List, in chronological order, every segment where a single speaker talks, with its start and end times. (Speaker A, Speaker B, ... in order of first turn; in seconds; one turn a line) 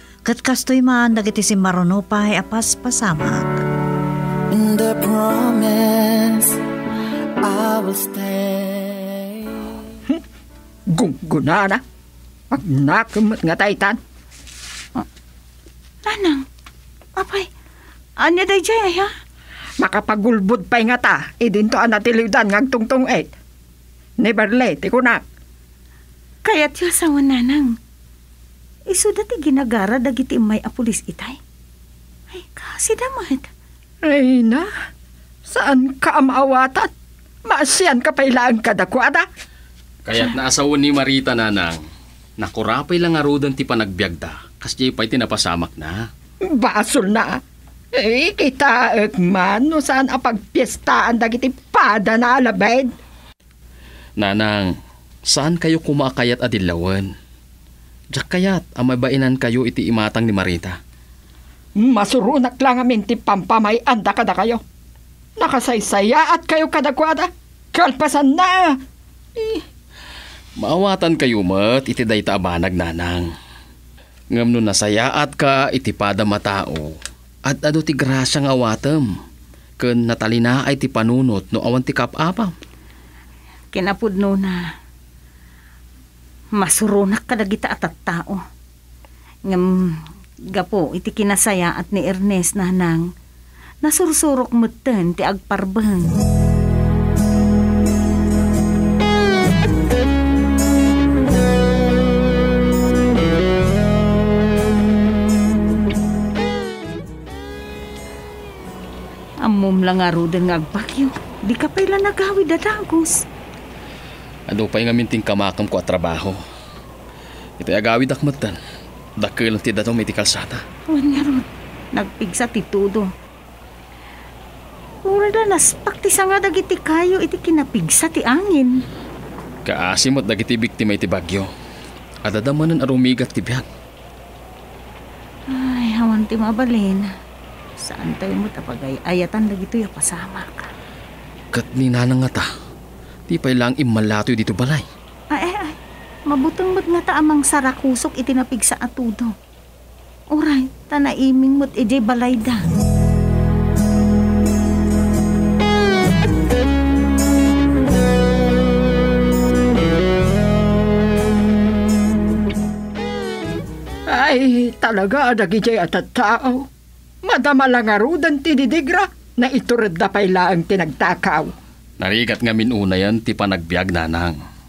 Speaker A: 0.2-3.6
Speaker B: 4.5-6.6
Speaker B: 7.4-9.7
Speaker C: 10.9-11.8
Speaker C: 12.5-14.0
Speaker D: 16.1-16.4
Speaker D: 17.2-17.5
Speaker D: 18.2-19.1
Speaker C: 19.8-23.3
Speaker C: 24.2-25.2
Speaker D: 26.4-27.7
Speaker D: 28.9-31.4
Speaker D: 32.3-33.5
Speaker C: 34.0-34.7
Speaker C: 35.5-36.9
Speaker C: 37.5-39.2
Speaker E: 40.0-41.8
Speaker E: 42.4-46.1
Speaker C: 46.5-47.4
Speaker C: 47.9-52.9
Speaker E: 54.2-54.7
Speaker E: 55.3-57.1
Speaker E: 58.1-60.8
Speaker C: 61.8-64.6
Speaker C: 65.4-68.8
Speaker C: 69.3-69.6
Speaker E: 70.6-73.3
Speaker E: 74.3-79.2
Speaker E: 79.8-82.5
Speaker D: 83.7-84.7
Speaker D: 86.5-88.4
Speaker D: 89.5-93.1
Speaker D: 93.8-96.1
Speaker D: 109.4-113.2
Speaker E: 114.5-116.4
Speaker E: 117.6-118.6
Speaker E: 119.2-120.6
Speaker D: 120.9-123.1
Speaker D: 125.0-128.8
Speaker E: 129.6-131.5
Speaker E: 132.2-133.7
Speaker D: 135.5-137.1
Speaker D: 137.8-140.7
Speaker E: 141.5-142.5
Speaker E: 143.3-144.8
Speaker D: 145.3-149.3
Speaker D: 150.3-152.7
Speaker C: 164.1-166.7
Speaker C: 167.2-171.5
Speaker E: 172.0-174.4